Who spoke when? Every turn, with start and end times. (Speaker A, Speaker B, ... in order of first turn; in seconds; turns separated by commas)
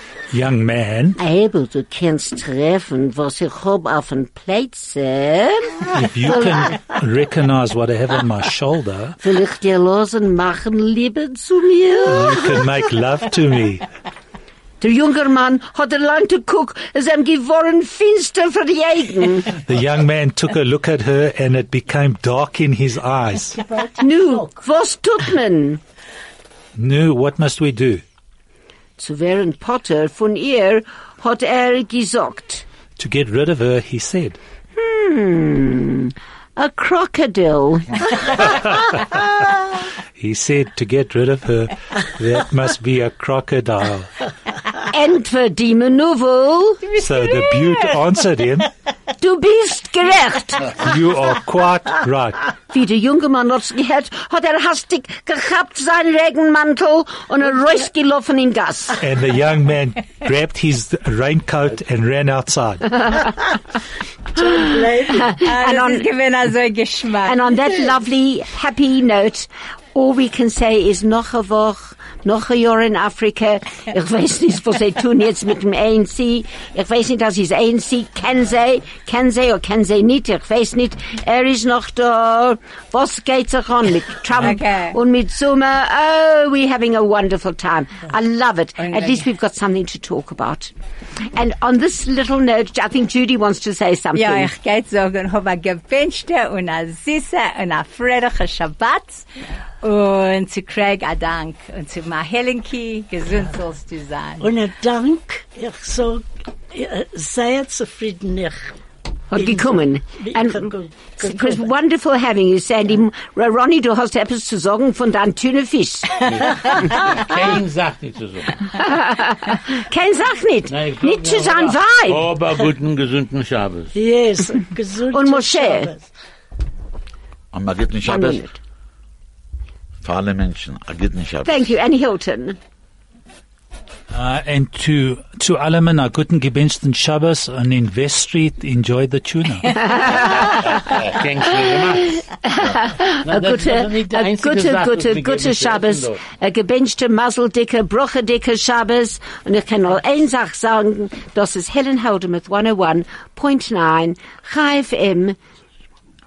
Speaker A: 0.3-1.2, Speaker B: 1.2-6.8, Speaker A: 5.9-9.2, Speaker B: 9.2-12.6, Speaker A: 12.1-13.8, Speaker B: 14.8-19.6, Speaker A: 19.6-23.6, Speaker C: 23.5-24.5, Speaker B: 24.0-25.8, Speaker A: 26.8-28.0, Speaker B: 29.0-32.6, Speaker A: 33.0-34.4, Speaker B: 34.8-38.5, Speaker A: 38.5-44.2, Speaker B: 44.8-46.9, Speaker A: 46.9-48.7, Speaker D: 47.0-47.9, Speaker B: 49.2-50.7, Speaker A: 50.7-52.5, Speaker B: 52.7-59.0, Speaker A: 59.0-63.2, Speaker C: 64.3-65.3, Speaker B: 65.2-66.1, Speaker D: 65.4-67.6, Speaker B: 67.2-90.7, Speaker D: 84.3-85.0, Speaker D: 88.8-89.2, Speaker B: 91.3-94.5, Speaker D: 94.1-99.3, Speaker D: 99.8-104.5, Speaker C: 104.4-108.7, Speaker B: 109.3-116.3, Speaker C: 109.3-111.6, Speaker E: 116.2-118.7, Speaker B: 118.7-122.3, Speaker E: 120.7-123.9, Speaker C: 123.9-126.1, Speaker B: 125.1-125.9, Speaker F: 127.5-128.4, Speaker B: 128.0-128.5, Speaker F: 130.0-131.7, Speaker B: 131.4-132.6, Speaker A: 134.1-140.0, Speaker B: 139.8-140.6, Speaker E: 140.0-142.3, Speaker B: 142.3-155.4, Speaker E: 143.2-146.2